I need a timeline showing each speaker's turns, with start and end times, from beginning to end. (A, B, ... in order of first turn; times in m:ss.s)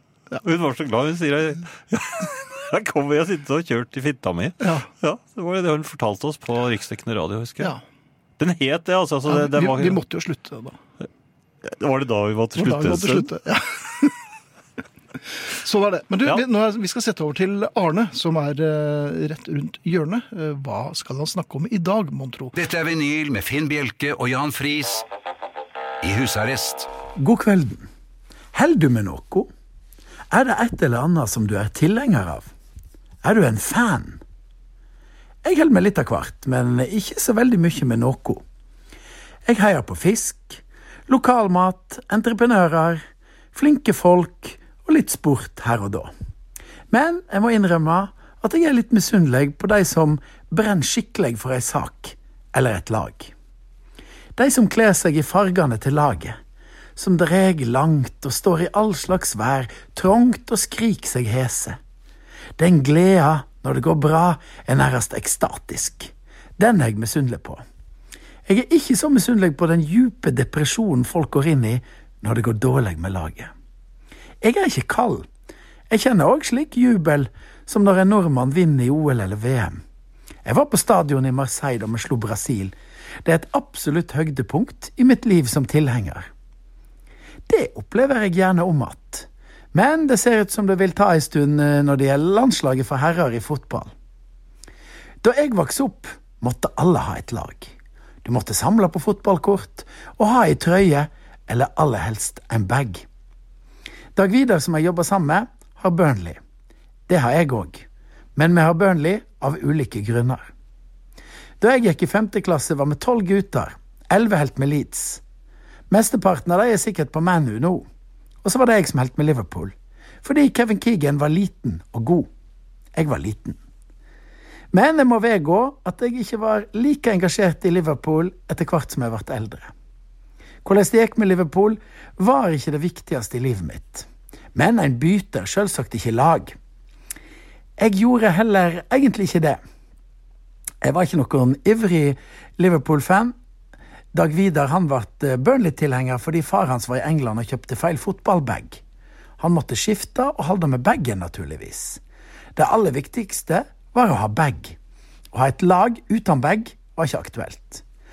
0:00.4-0:07.7 A
0:04.6-0:04.9 B
0:08.4-0:10.0 A
0:09.2-0:10.8 B
0:11.6-0:13.3 A
0:12.6-0:14.2 B
0:15.2-0:22.5 B
0:22.5-0:25.0 C
0:26.0-0:26.9 C
0:27.2-0:27.9 D
0:28.5-0:29.5 D
0:30.3-0:32.5 D
0:33.2-0:34.2 D
0:35.4-0:38.4 D
0:39.4-0:43.0 D
0:43.5-0:46.1 D
0:46.9-0:53.3 D
0:54.4-0:56.4 D
0:57.0-1:01.8 D
1:02.6-1:07.6 D
1:08.5-1:13.5 D
1:14.4-1:15.3 D
1:15.9-1:19.8 D
1:20.4-1:26.3 D
1:27.5-1:33.9 D
1:35.2-1:37.7 D
1:38.2-1:43.0 D
1:44.1-1:46.4 D
1:47.1-1:47.8 D
1:48.4-1:50.5 D
1:51.6-1:55.2 D
1:55.9-1:57.8 D
1:58.4-2:02.3 D
2:02.9-2:03.6 D
2:04.7-2:09.7 D
2:10.6-2:16.6 D
2:17.8-2:19.6 D
2:20.8-2:23.3 D
2:24.1-2:28.8 D
2:29.4-2:32.0 D
2:32.5-2:34.8 D
2:35.3-2:37.8 D